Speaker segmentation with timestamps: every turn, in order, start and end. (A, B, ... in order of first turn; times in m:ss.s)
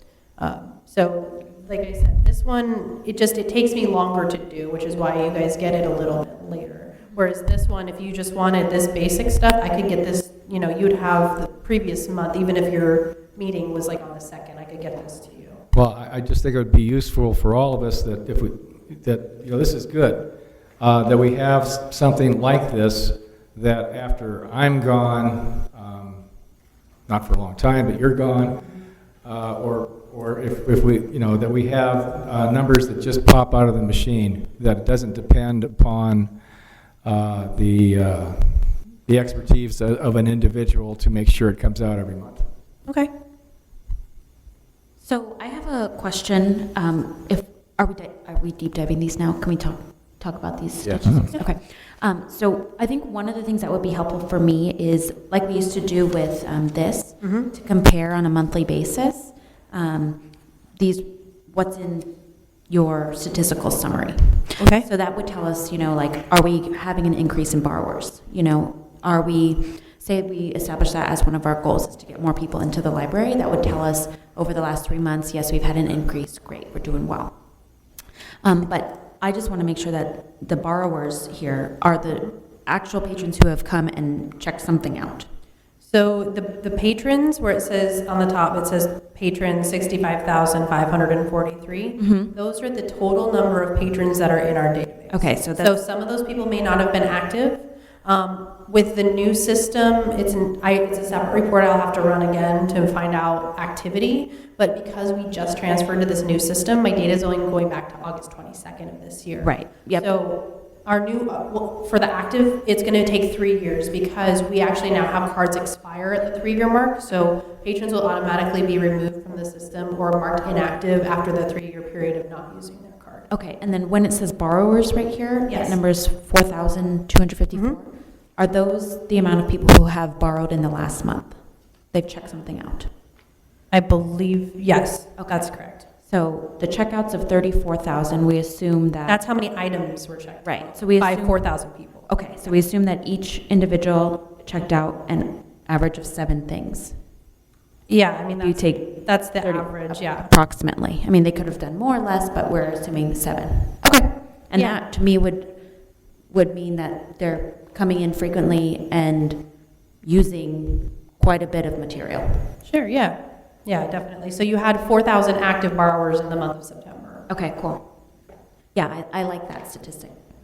0:00.3-0:15.6 A
0:15.7-0:26.2 B
0:27.1-0:28.6 B
0:29.2-0:36.3 B
0:37.0-0:42.5 B
0:45.0-1:02.1 C
0:50.8-0:51.3 B
0:57.2-0:57.5 A
1:02.7-1:17.3 C
1:04.6-1:04.8 A
1:18.4-1:25.3 C
1:25.8-2:03.3 A
1:32.0-1:32.3 C
1:35.1-1:35.7 C
1:49.4-1:50.0 C
2:03.3-2:11.4 C
2:05.5-2:05.8 A
2:07.5-2:07.8 A
2:11.9-2:12.9 C
2:13.7-2:15.9 A
2:16.0-2:19.2 C
2:19.0-2:22.1 A
2:20.4-2:27.0 C
2:27.9-2:30.3 A
2:28.4-2:35.6 C
2:34.5-2:34.8 A
2:36.3-2:39.4 C
2:40.0-2:42.5 C
2:42.6-2:47.2 A
2:47.3-2:47.8 C
2:48.7-2:50.1 C